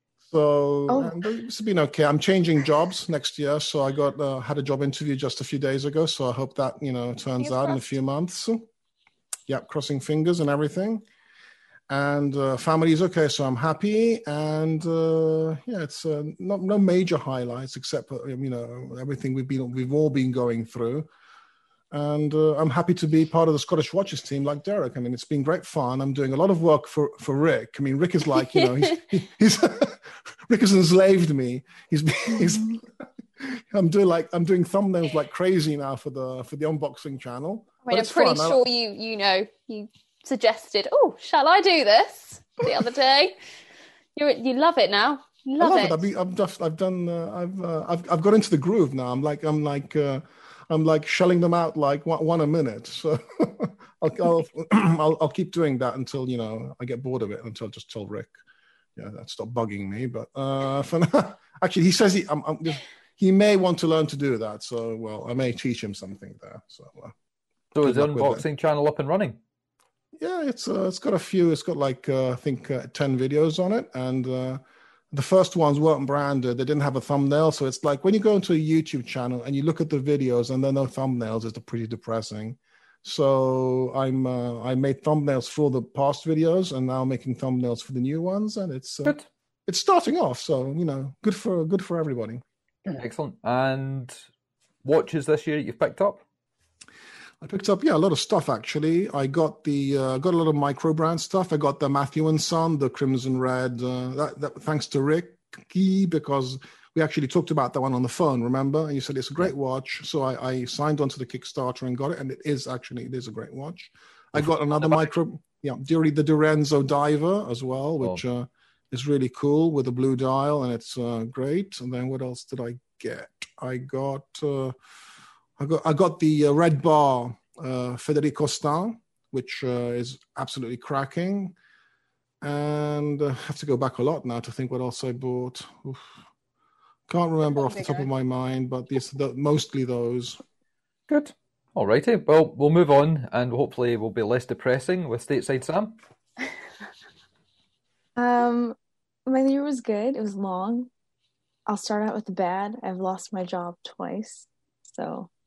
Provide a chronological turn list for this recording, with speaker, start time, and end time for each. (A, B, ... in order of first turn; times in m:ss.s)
0:00.3-0:08.7 A
0:00.9-0:01.2 B
0:07.4-0:07.9 C
0:09.5-0:11.0 A
0:11.9-0:21.1 A
0:21.9-0:32.8 A
0:28.4-0:29.0 C
0:33.4-0:38.6 A
0:37.8-0:43.4 C
0:44.2-0:46.1 C
0:45.6-0:58.3 A
0:59.0-1:07.1 A
1:07.7-1:09.4 D
1:07.8-1:08.4 A
1:10.2-1:14.6 A
1:15.1-1:32.4 A
1:33.0-1:34.2 D
1:34.8-1:36.2 D
1:37.4-2:04.8 A
2:05.6-2:11.5 A
2:12.4-2:16.0 A
2:17.1-2:20.4 A
2:17.5-2:18.1 C
2:21.1-2:26.0 D
2:28.2-2:30.9 B
2:31.7-2:35.3 B